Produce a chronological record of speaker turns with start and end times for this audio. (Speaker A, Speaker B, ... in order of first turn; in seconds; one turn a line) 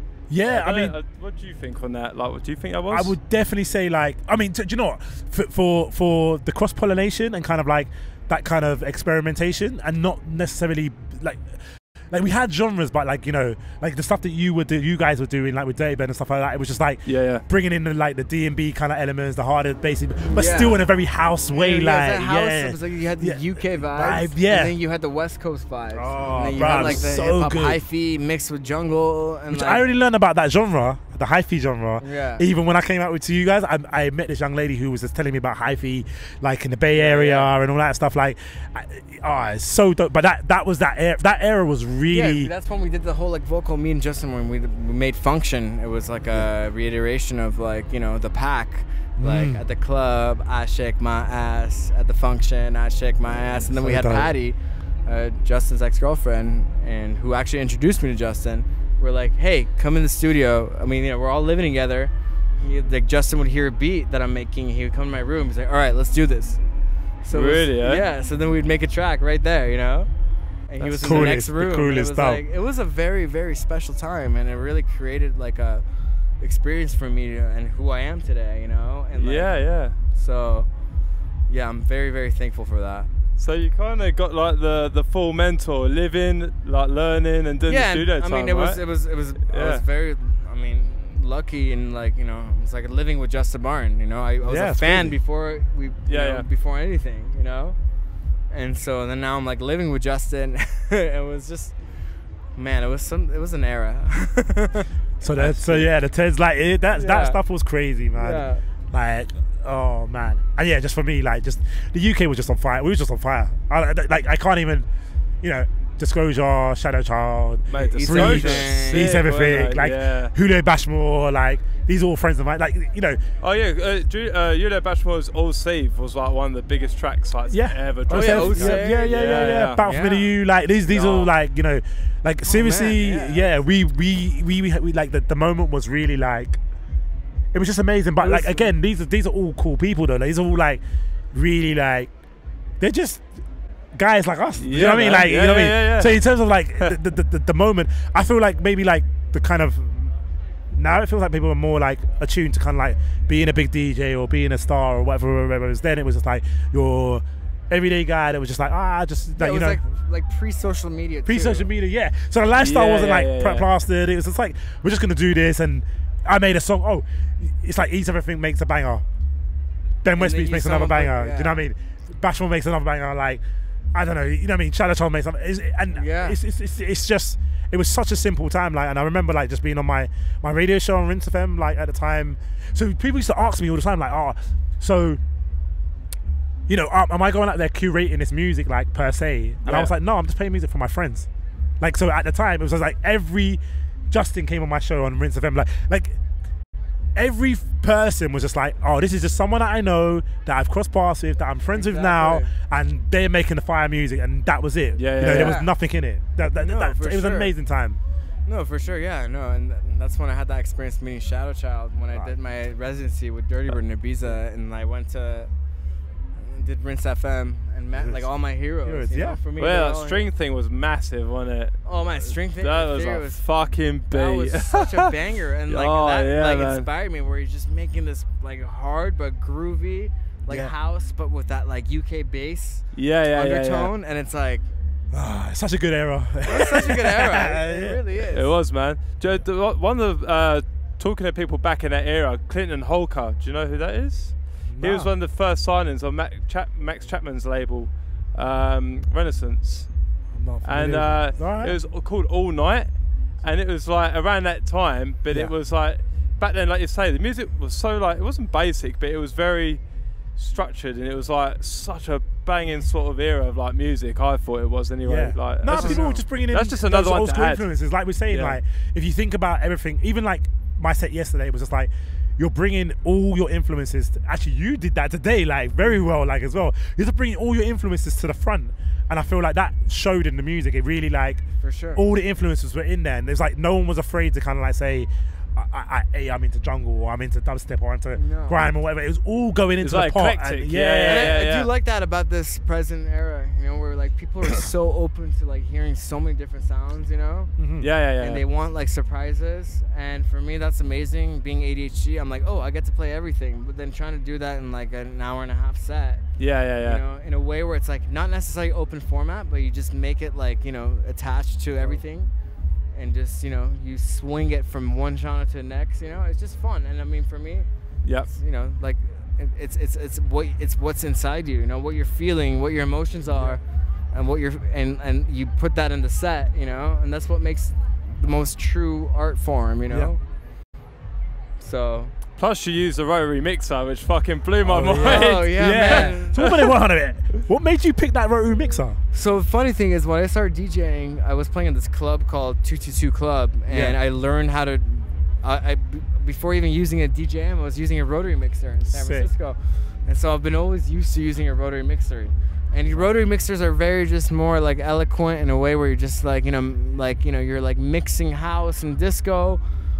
Speaker A: 0.3-0.9
Speaker B: 0.4-3.1
Speaker A: 2.9-24.7
Speaker B: 17.0-17.4
Speaker C: 20.2-20.7
Speaker C: 21.5-29.8
Speaker A: 25.9-27.8
Speaker A: 29.5-42.5
Speaker C: 32.0-32.4
Speaker C: 36.9-37.5
Speaker C: 42.1-66.6
Speaker A: 49.2-49.6
Speaker A: 53.7-54.3
Speaker C: 67.2-70.1
Speaker B: 67.3-68.0
Speaker C: 70.7-75.8
Speaker B: 70.8-71.4
Speaker A: 71.0-72.4
Speaker C: 76.4-80.7
Speaker B: 79.2-80.0
Speaker C: 81.5-83.1
Speaker B: 83.4-88.8
Speaker C: 87.7-97.8
Speaker B: 89.4-89.8
Speaker A: 94.4-95.2
Speaker B: 96.1-96.5
Speaker C: 98.5-101.8
Speaker C: 102.5-104.9
Speaker A: 105.2-114.9
Speaker B: 105.3-105.9
Speaker C: 106.9-107.4
Speaker C: 108.1-108.6
Speaker A: 115.4-123.2
Speaker B: 117.7-120.3
Speaker C: 117.7-119.2
Speaker B: 123.4-129.8
Speaker A: 127.5-136.6
Speaker C: 128.1-130.3
Speaker B: 130.9-131.3
Speaker C: 132.4-133.4
Speaker A: 137.5-140.8
Speaker C: 138.2-138.7
Speaker A: 141.3-142.1
Speaker A: 142.8-143.3
Speaker A: 143.9-150.1
Speaker B: 144.6-146.2
Speaker A: 150.7-159.8
Speaker C: 159.3-161.7
Speaker A: 161.2-169.0
Speaker B: 162.6-163.7
Speaker A: 170.0-173.4
Speaker C: 170.2-171.6
Speaker A: 173.9-185.2
Speaker C: 175.9-176.4
Speaker A: 186.7-191.3
Speaker B: 189.6-189.9
Speaker A: 191.8-196.2
Speaker A: 197.1-208.0
Speaker C: 201.7-202.5
Speaker B: 205.0-205.6
Speaker C: 205.2-205.7
Speaker C: 206.5-207.5
Speaker C: 208.4-215.5
Speaker C: 216.3-220.3
Speaker A: 217.9-218.2
Speaker A: 218.8-219.4
Speaker B: 219.6-225.1
Speaker C: 221.8-223.4
Speaker C: 224.1-234.6
Speaker B: 225.7-226.9
Speaker A: 230.5-230.7
Speaker B: 232.9-233.9
Speaker A: 235.1-238.0
Speaker C: 236.4-238.5
Speaker B: 238.3-249.9
Speaker A: 244.7-245.1
Speaker A: 250.3-251.8
Speaker B: 250.6-259.8
Speaker B: 260.4-267.6
Speaker A: 265.0-281.4
Speaker C: 265.7-266.2
Speaker B: 268.3-268.6
Speaker C: 281.6-282.0
Speaker A: 281.9-291.4
Speaker C: 288.1-288.6
Speaker B: 289.8-291.7
Speaker C: 291.1-297.5
Speaker A: 297.6-297.9
Speaker B: 297.8-298.4
Speaker C: 298.2-306.2
Speaker B: 306.4-307.0
Speaker C: 306.8-312.3
Speaker C: 312.9-317.7
Speaker B: 318.0-318.3
Speaker C: 318.2-323.6
Speaker C: 324.1-330.2
Speaker C: 331.6-332.1
Speaker B: 332.4-336.6
Speaker A: 334.6-339.0
Speaker C: 334.9-336.4
Speaker C: 339.1-359.6
Speaker A: 343.7-344.0
Speaker A: 348.9-349.3